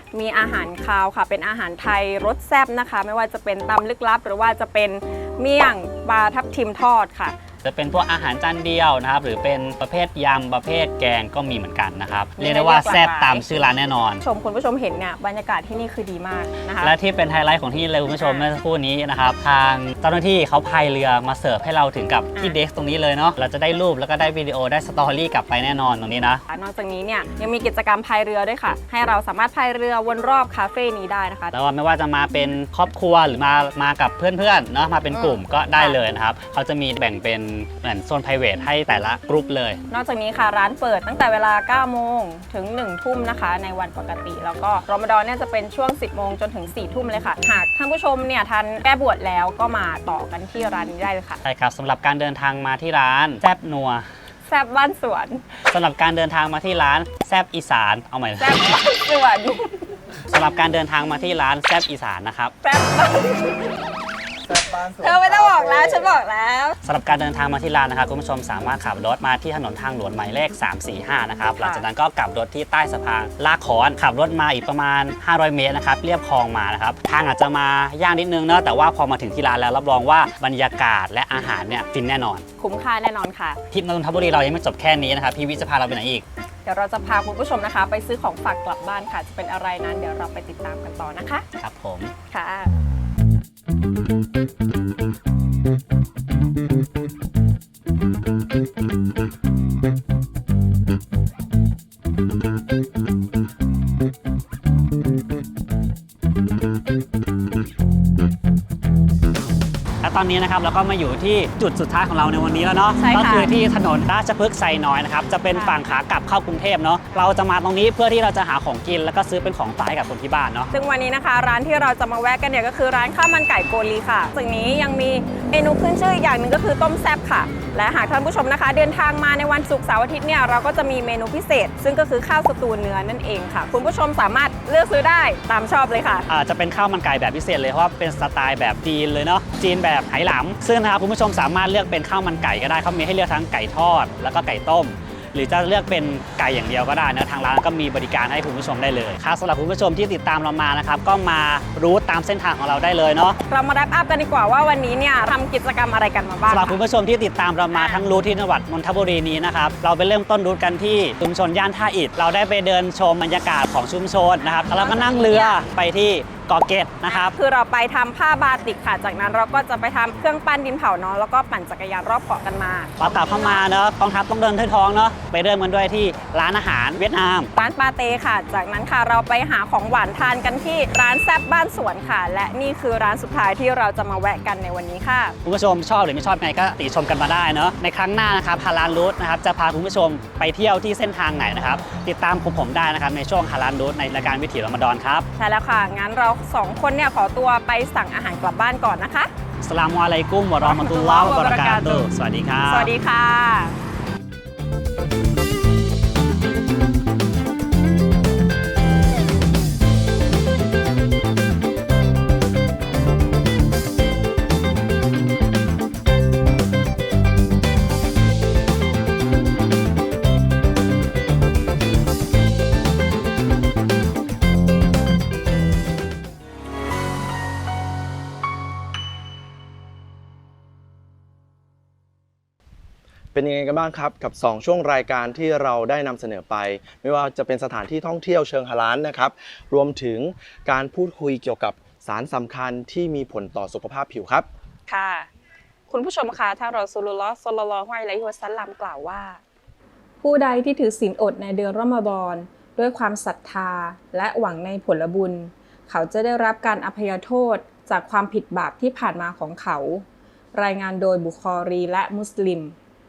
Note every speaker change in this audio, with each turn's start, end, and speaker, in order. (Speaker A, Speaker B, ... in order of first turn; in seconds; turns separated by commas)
Speaker A: 0.1-7.4, Speaker B: 7.6-14.2, Speaker A: 12.4-13.6, Speaker A: 14.2-16.9, Speaker B: 16.8-26.4, Speaker A: 18.2-18.5, Speaker A: 26.5-31.5, Speaker B: 31.5-39.8, Speaker A: 35.1-36.0, Speaker A: 39.9-51.4, Speaker B: 51.4-54.0, Speaker A: 54.5-55.4, Speaker B: 55.7-58.8, Speaker A: 58.4-60.0, Speaker B: 60.3-62.5, Speaker A: 62.6-63.7, Speaker A: 64.5-66.8, Speaker B: 66.8-82.4, Speaker A: 82.6-83.6, Speaker B: 83.7-86.2, Speaker A: 86.6-91.5, Speaker B: 91.6-92.1, Speaker A: 92.3-92.7, Speaker B: 110.0-120.7, Speaker A: 113.0-113.5, Speaker A: 115.5-116.0, Speaker A: 120.7-136.3, Speaker B: 136.3-153.4, Speaker A: 153.5-156.8, Speaker B: 156.5-167.3, Speaker A: 157.7-158.0, Speaker A: 164.4-165.6, Speaker A: 167.1-173.6, Speaker B: 173.0-177.5, Speaker A: 177.5-185.4, Speaker B: 185.4-195.3, Speaker A: 195.4-199.3, Speaker B: 199.6-202.9, Speaker A: 200.6-202.1, Speaker A: 202.7-203.8, Speaker C: 233.3-244.5, Speaker A: 244.9-245.3, Speaker A: 245.9-249.4, Speaker A: 250.2-262.7